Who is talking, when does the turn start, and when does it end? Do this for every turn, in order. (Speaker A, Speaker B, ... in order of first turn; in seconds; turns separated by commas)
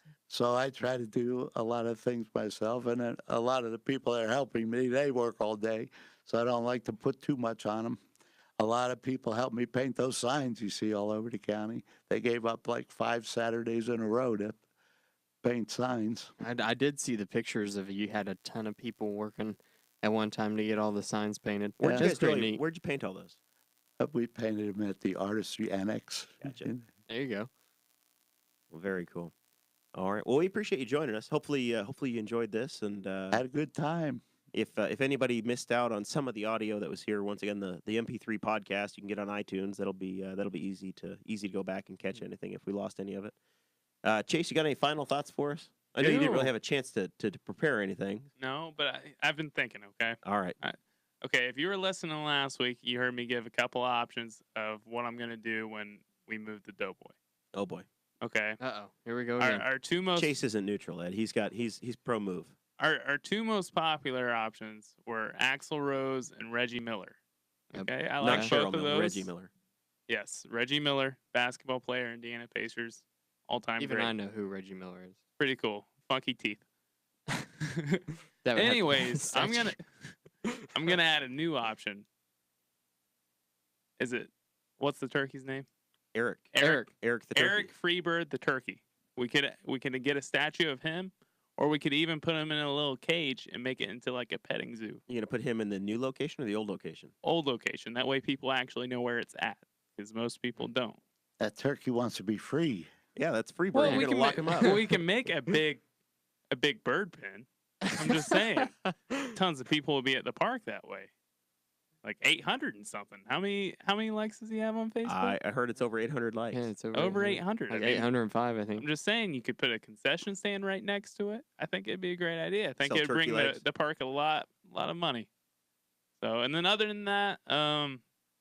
Speaker A: 0.3-8.0, Speaker A: 8.6-14.6, Speaker A: 15.4-16.3, Speaker B: 16.4-22.6, Speaker C: 21.8-23.4, Speaker A: 21.8-22.1, Speaker A: 24.0-26.9, Speaker C: 26.4-26.7, Speaker B: 27.1-27.5, Speaker C: 28.7-29.3, Speaker C: 30.0-33.4, Speaker A: 33.3-34.2, Speaker C: 34.5-43.4, Speaker C: 44.0-48.3, Speaker D: 46.0-46.5, Speaker D: 48.4-57.1, Speaker C: 50.2-50.6, Speaker C: 57.5-57.9, Speaker D: 58.2-58.6, Speaker B: 58.6-59.7, Speaker D: 59.4-60.4, Speaker C: 60.2-62.5, Speaker D: 62.8-67.2, Speaker D: 67.7-69.3, Speaker B: 67.7-68.5, Speaker C: 68.2-69.5, Speaker D: 70.1-74.1, Speaker B: 73.8-75.2, Speaker D: 75.4-76.6, Speaker B: 78.5-79.8, Speaker D: 78.5-80.2, Speaker D: 80.7-82.0, Speaker D: 84.0-85.7, Speaker C: 86.2-87.7, Speaker D: 86.5-95.0, Speaker B: 86.6-86.9, Speaker C: 95.1-97.1, Speaker D: 97.2-101.0, Speaker A: 101.4-102.9, Speaker C: 103.2-104.8, Speaker D: 103.7-105.8, Speaker B: 103.8-104.1, Speaker D: 106.5-111.1, Speaker D: 112.0-115.4, Speaker C: 115.0-116.7, Speaker B: 116.5-118.9, Speaker D: 116.9-118.1, Speaker D: 118.8-125.3, Speaker C: 122.8-123.6, Speaker D: 126.2-128.0